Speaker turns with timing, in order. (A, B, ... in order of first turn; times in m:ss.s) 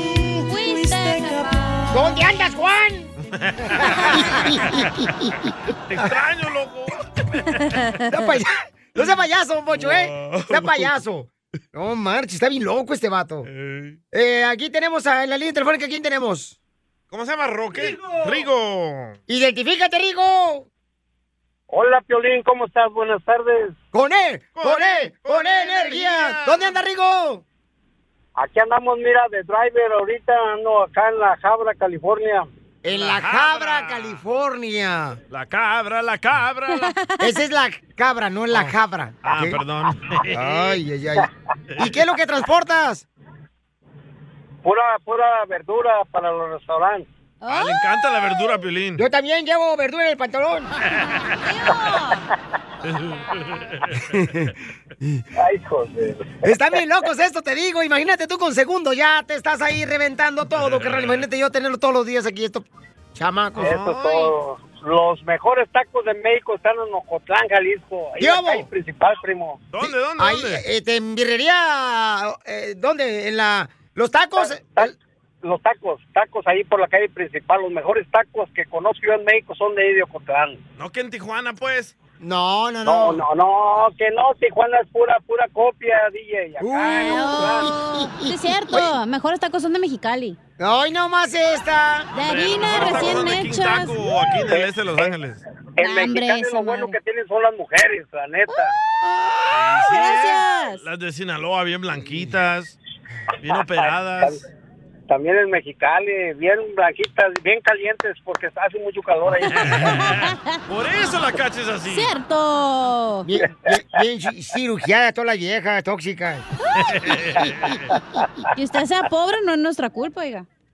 0:00.4-0:01.7 A
0:01.9-0:03.1 B
0:03.3-0:04.4 C
0:03.7-0:05.3 B
0:05.9-0:07.7 C
0:08.1-0:13.5 B
0:09.7-0:10.9 C
0:13.4-0:14.0 C
0:14.1-0:16.6 B
0:17.1-0:19.2 C
0:19.3-0:20.7 B
0:21.7-0:23.8 D
0:23.9-0:27.4 B
0:24.6-0:26.8 C
0:28.4-0:32.5 D
0:32.8-0:35.2 B
0:32.9-0:34.2 C
0:35.3-0:36.9 C
0:36.8-0:37.3 A
0:37.2-0:39.6 B
0:38.5-0:40.8 C
0:40.3-0:43.0 B
0:41.7-0:42.1 C
0:44.6-0:47.0 D
0:47.4-0:47.8 A
0:47.5-0:49.0 C
0:49.0-0:50.7 B
0:51.4-0:52.2 A
0:52.8-0:54.0 C
0:54.1-0:55.2 B
0:55.4-0:56.4 D
0:56.4-1:03.7 B
1:00.5-1:01.2 C
1:03.6-1:04.3 C
1:03.6-1:09.6 D
1:08.2-1:08.7 B
1:09.7-1:10.6 C
1:09.8-1:14.9 B
1:14.8-1:20.6 D
1:20.8-1:21.9 C
1:22.2-1:23.2 B
1:22.8-1:27.7 D
1:26.6-1:28.9 B
1:27.0-1:30.4 A
1:30.6-1:32.1 B
1:32.1-1:34.0 A
1:32.1-1:35.4 C
1:35.8-1:38.7 D
1:35.8-1:37.0 A
1:39.1-1:39.4 B
1:39.5-1:42.8 C
1:39.8-1:40.8 A
1:42.0-1:42.2 B
1:43.4-1:44.4 C
1:43.8-1:44.4 D
1:45.1-1:49.9 D
1:49.4-1:50.4 A
1:49.5-1:52.1 C
1:51.9-1:53.3 A
1:53.2-1:56.4 B
1:56.8-1:57.9 C
1:58.6-2:00.4 A